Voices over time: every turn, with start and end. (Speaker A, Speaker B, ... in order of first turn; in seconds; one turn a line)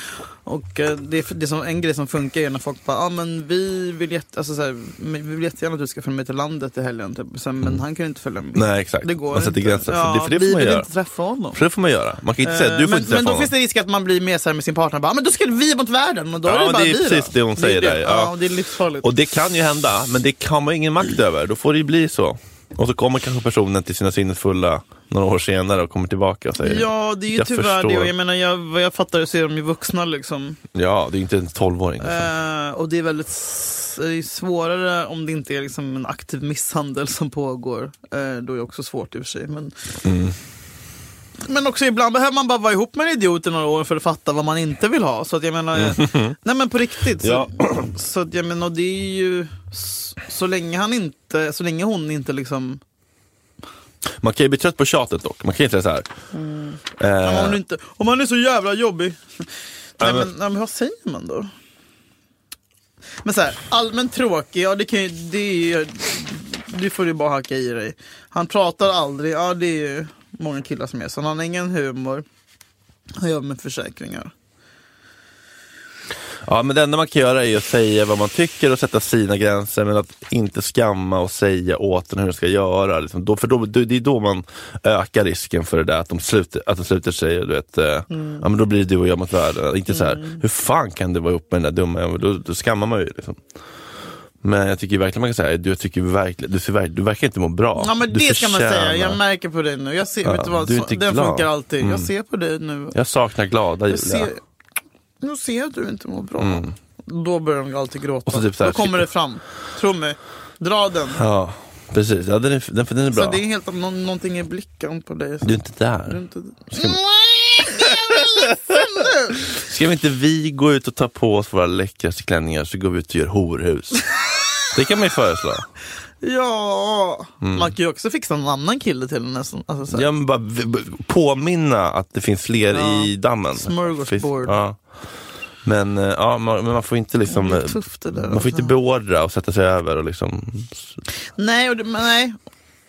Speaker A: 0.5-11.6
Speaker B: 8.6-10.9
Speaker B: 11.5-13.5
Speaker A: 12.4-19.1
Speaker B: 16.4-18.3
Speaker B: 19.0-28.1
Speaker A: 26.6-30.6
Speaker B: 30.7-32.3
Speaker A: 32.0-39.7
Speaker B: 40.0-40.4
Speaker A: 41.4-52.8
Speaker B: 45.8-46.3
Speaker B: 47.2-47.9
Speaker B: 54.2-56.1
Speaker A: 56.3-59.4
Speaker B: 57.0-57.6
Speaker A: 60.0-61.5
Speaker B: 60.0-60.3
Speaker A: 63.2-72.2
Speaker A: 73.2-74.3
Speaker B: 76.4-93.4
Speaker A: 88.1-88.4
Speaker A: 89.9-90.4
Speaker B: 94.4-99.2
Speaker A: 97.8-103.0
Speaker B: 100.2-102.1
Speaker B: 102.9-104.3
Speaker A: 103.9-104.4
Speaker A: 105.2-111.2
Speaker B: 106.4-106.7
Speaker B: 108.3-109.1
Speaker B: 111.1-113.4
Speaker A: 113.1-115.5
Speaker B: 115.4-116.2
Speaker A: 116.1-119.4
Speaker B: 116.7-117.0
Speaker B: 117.6-118.4
Speaker B: 119.4-124.0
Speaker B: 124.7-125.7
Speaker A: 126.2-130.1
Speaker B: 127.4-127.7
Speaker B: 129.9-134.8
Speaker A: 132.7-134.5
Speaker B: 135.6-140.9
Speaker A: 137.3-138.7
Speaker A: 141.4-142.4